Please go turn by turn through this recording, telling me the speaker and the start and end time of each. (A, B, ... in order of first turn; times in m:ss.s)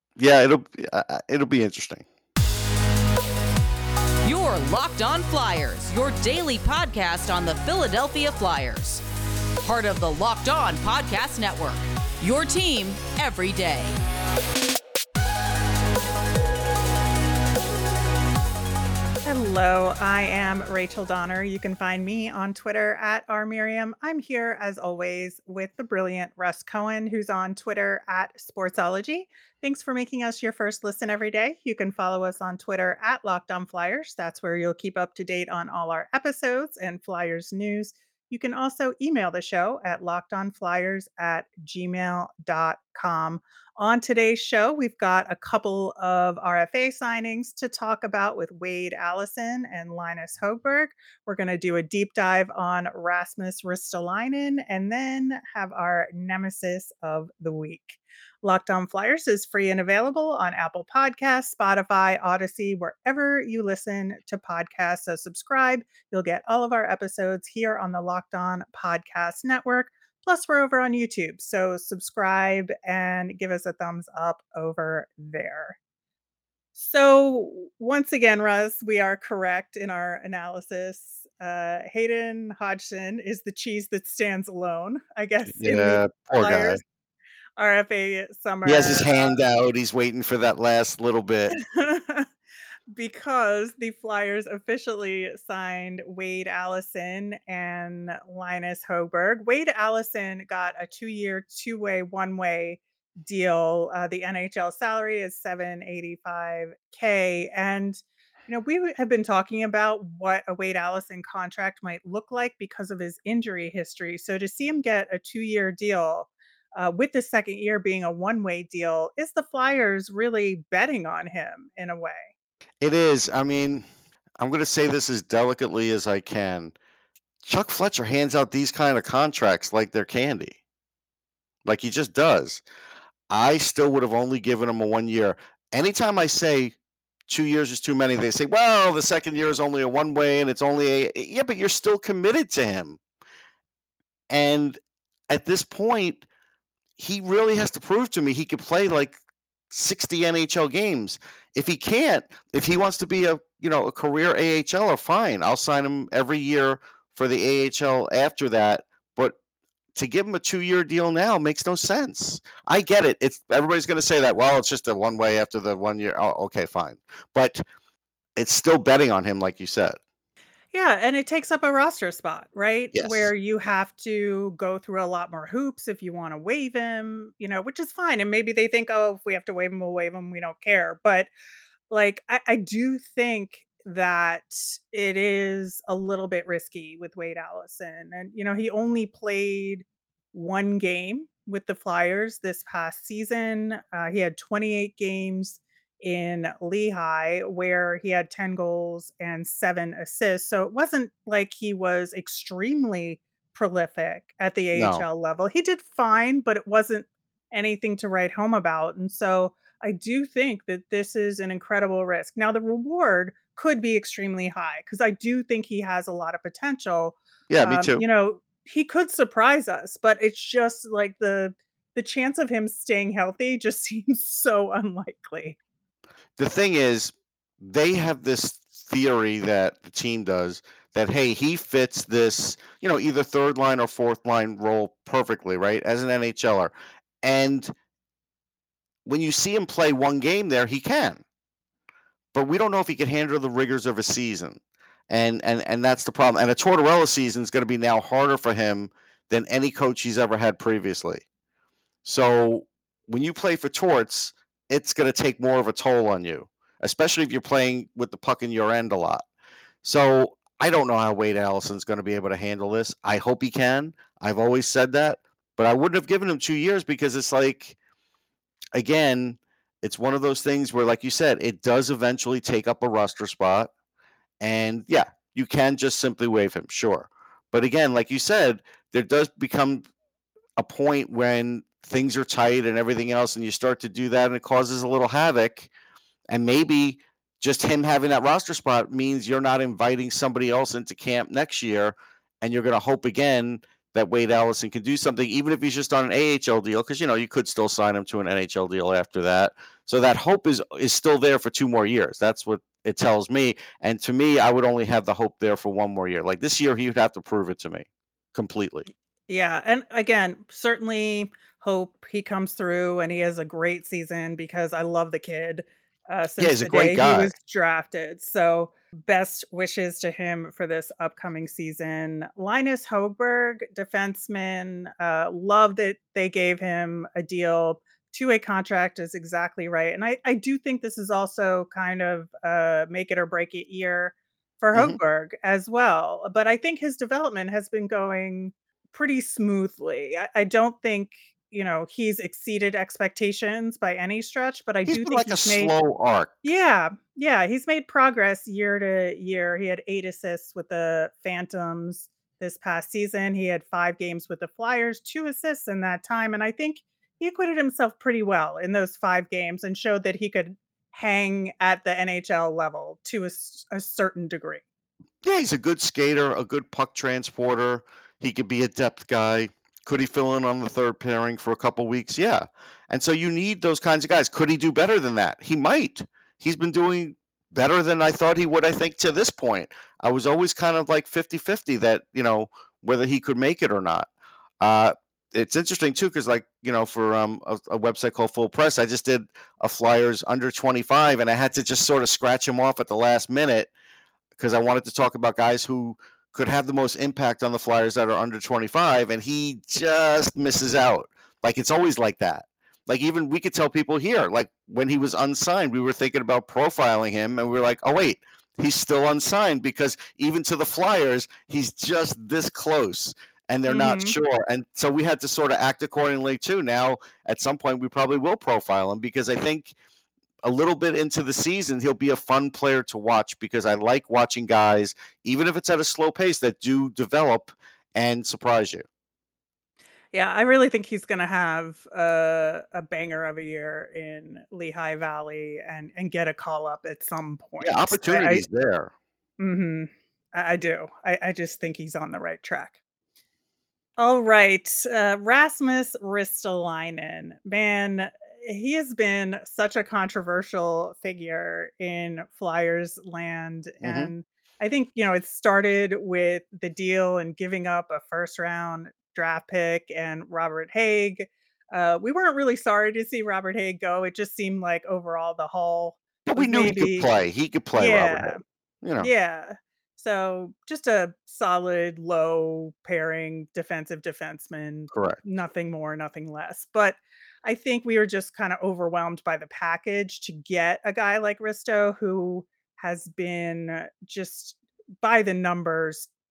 0:00.2-0:02.1 A
0:04.2-0:09.0 B
0:09.6-0:13.9 B
0:19.2-1:15.8 C
1:16.8-1:26.8 C
1:25.5-1:26.8 A
1:27.6-1:29.4 C
1:28.6-1:31.6 A
1:31.6-1:32.3 C
1:32.9-2:02.3 C
2:02.8-2:03.8 A
2:04.4-2:06.8 A
2:07.4-2:10.6 A
2:11.6-2:12.6 A
2:13.3-2:16.8 A
2:17.3-2:23.0 A
2:24.3-2:24.8 A
2:25.3-2:26.3 A
2:27.0-2:39.4 A
2:40.0-2:47.6 A
2:48.4-2:50.0 A
2:50.7-3:01.3 C
2:52.9-2:53.3 A
3:01.9-3:45.6 C
3:24.8-3:25.0 A
3:37.5-3:38.0 A
3:46.4-3:57.7 A
3:59.1-4:01.2 A
4:02.3-4:11.2 A
4:12.0-4:19.2 A
4:19.8-4:27.8 A
4:28.8-4:33.7 A
4:34.4-4:39.8 A
4:40.6-4:45.7 A
4:46.3-5:08.9 A
5:09.3-5:45.7 C
5:16.4-5:17.3 A
5:34.7-5:35.0 A
5:44.9-5:46.3 A
5:46.4-6:04.6 C
6:05.2-6:24.1 A
6:24.6-6:33.7 A
6:34.4-6:59.7 A
6:53.7-6:54.2 C
7:00.4-7:08.8 A
7:10.1-7:18.4 C
7:17.6-7:18.9 A
7:19.4-7:22.8 C
7:24.0-7:47.1 C
7:33.8-7:34.1 A
7:46.3-7:49.1 A
7:47.7-7:48.4 C
7:49.0-8:06.1 C
7:54.9-7:55.2 A